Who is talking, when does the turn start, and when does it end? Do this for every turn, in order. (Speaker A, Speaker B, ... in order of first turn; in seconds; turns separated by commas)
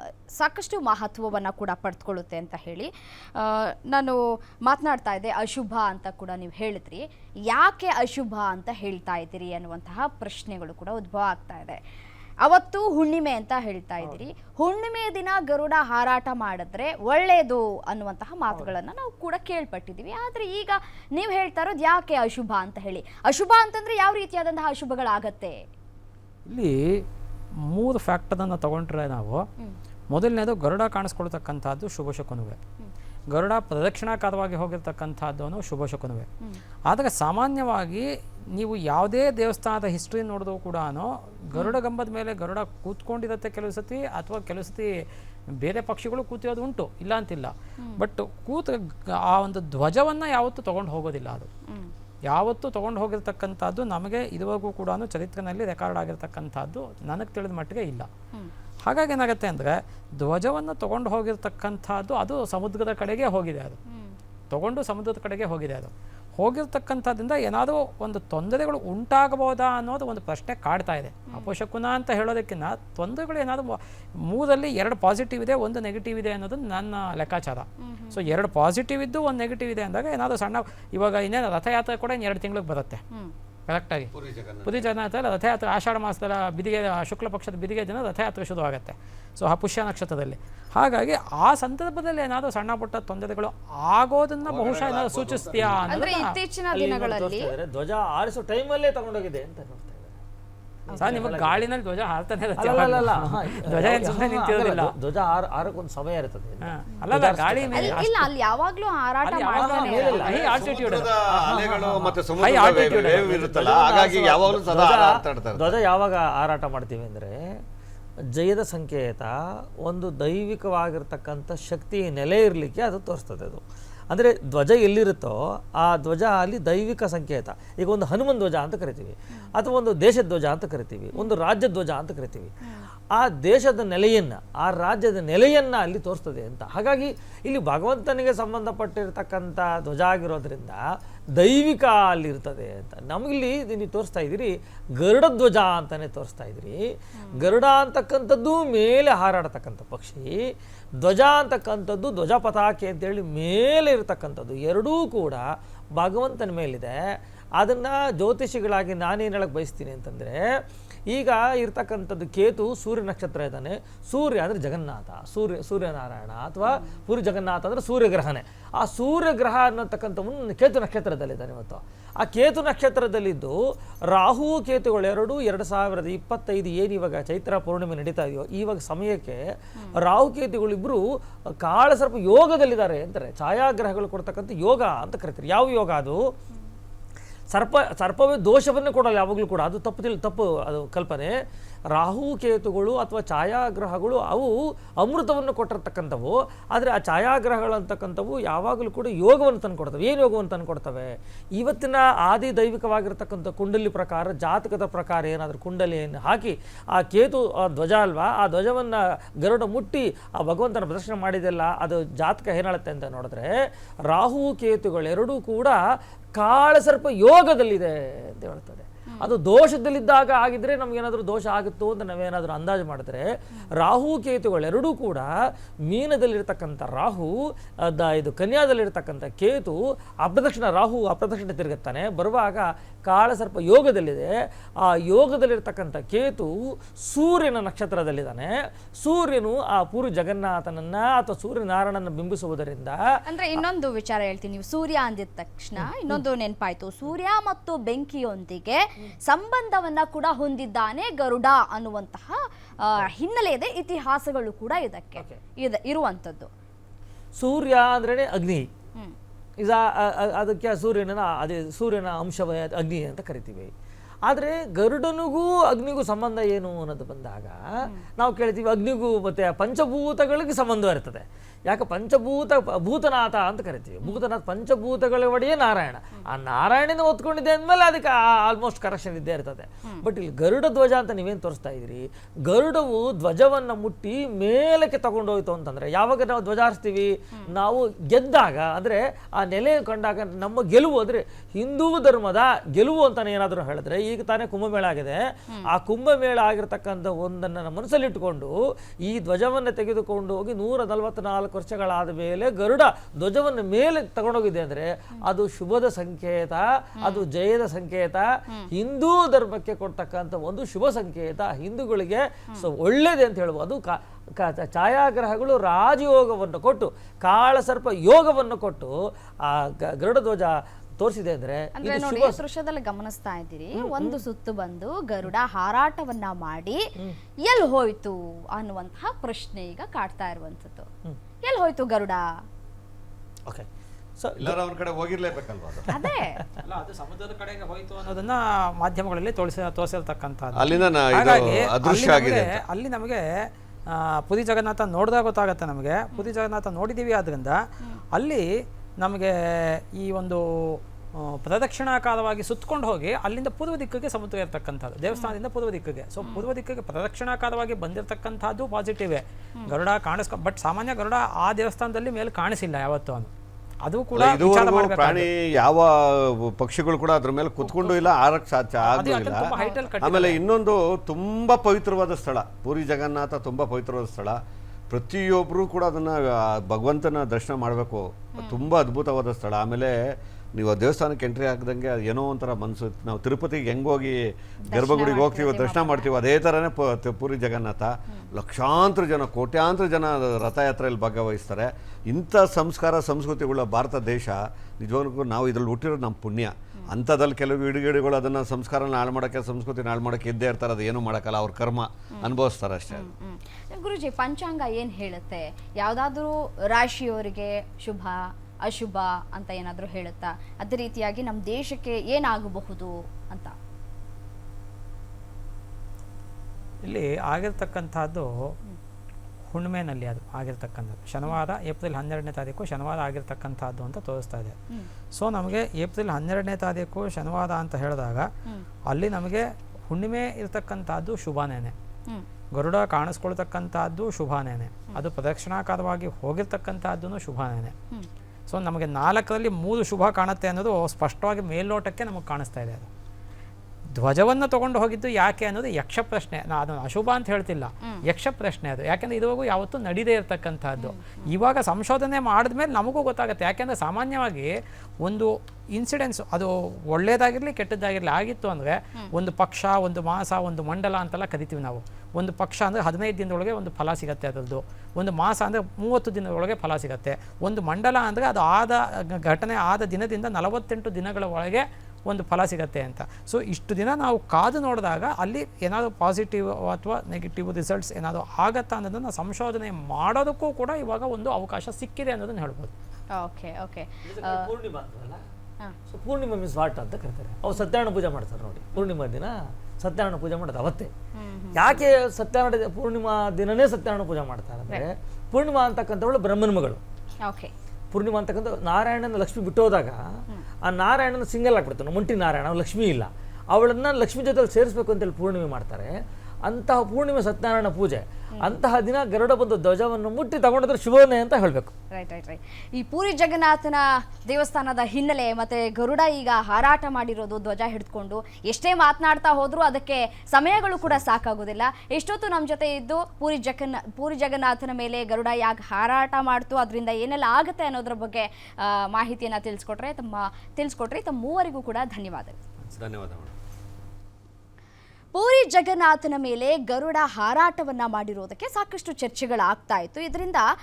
Speaker A: 0.4-11.8, Speaker A: 12.4-25.6, Speaker B: 14.0-14.3, Speaker C: 26.5-27.0, Speaker C: 27.7-29.4, Speaker C: 30.1-32.6, Speaker C: 33.3-36.3, Speaker C: 36.9-38.0, Speaker C: 38.6-44.9, Speaker C: 45.6-51.5, Speaker C: 52.3-58.1, Speaker C: 58.9-63.8, Speaker A: 63.9-64.2, Speaker C: 64.5-83.0, Speaker A: 77.8-78.3, Speaker C: 83.7-84.1, Speaker D: 84.1-84.9, Speaker C: 84.7-96.4, Speaker D: 94.4-95.9, Speaker A: 95.9-97.5, Speaker B: 96.7-100.2, Speaker A: 100.9-101.2, Speaker B: 100.9-101.6, Speaker C: 101.0-104.9, Speaker B: 102.6-108.0, Speaker C: 106.6-108.3, Speaker A: 107.7-110.3, Speaker C: 109.2-111.1, Speaker B: 109.5-110.8, Speaker D: 110.2-115.8, Speaker B: 111.3-117.4, Speaker C: 112.4-113.4, Speaker B: 118.4-119.3, Speaker B: 119.8-132.5, Speaker B: 133.2-140.8, Speaker B: 141.4-146.8, Speaker A: 147.2-147.5, Speaker B: 147.4-150.4, Speaker B: 151.0-157.0, Speaker B: 157.6-160.4, Speaker B: 161.1-173.6, Speaker B: 174.1-179.4, Speaker B: 180.0-181.0, Speaker B: 181.6-186.2, Speaker B: 187.5-191.3, Speaker B: 191.9-213.5, Speaker B: 214.1-215.8, Speaker B: 216.4-225.3, Speaker B: 225.9-227.3, Speaker B: 227.9-234.3, Speaker B: 234.9-236.5, Speaker B: 237.1-243.0, Speaker A: 243.3-256.5, Speaker B: 245.8-246.2, Speaker B: 257.4-258.7, Speaker B: 259.6-263.7, Speaker B: 264.3-267.6, Speaker B: 268.2-298.5, Speaker B: 299.1-318.9, Speaker B: 319.5-322.4, Speaker A: 321.8-326.8, Speaker B: 323.8-324.2, Speaker A: 327.5-330.9, Speaker A: 331.4-332.2, Speaker B: 334.2-334.6, Speaker D: 334.4-335.9, Speaker B: 335.9-336.4, Speaker A: 335.9-336.4, Speaker C: 336.6-343.2, Speaker D: 340.6-342.6, Speaker C: 343.9-347.6, Speaker C: 348.1-348.5, Speaker C: 349.0-363.3, Speaker C: 363.9-365.3, Speaker D: 364.1-374.4, Speaker C: 367.6-368.1, Speaker C: 368.8-370.4, Speaker A: 369.6-369.9, Speaker D: 374.9-380.0, Speaker A: 378.4-378.7, Speaker D: 380.6-403.1, Speaker A: 384.7-386.1, Speaker A: 402.9-413.5, Speaker C: 416.8-418.5, Speaker C: 419.5-424.6, Speaker C: 425.2-428.3, Speaker C: 428.9-431.7, Speaker C: 432.6-437.7, Speaker C: 438.5-442.9, Speaker C: 444.0-454.5, Speaker A: 450.8-451.3, Speaker C: 455.0-482.7, Speaker A: 483.1-484.5, Speaker B: 484.1-485.2, Speaker B: 485.9-490.9, Speaker A: 491.2-491.8, Speaker B: 491.5-496.8, Speaker A: 497.2-497.5, Speaker B: 497.9-500.0, Speaker B: 500.6-505.9, Speaker B: 506.5-511.7, Speaker A: 511.9-532.4, Speaker D: 532.7-533.3, Speaker A: 535.1-540.4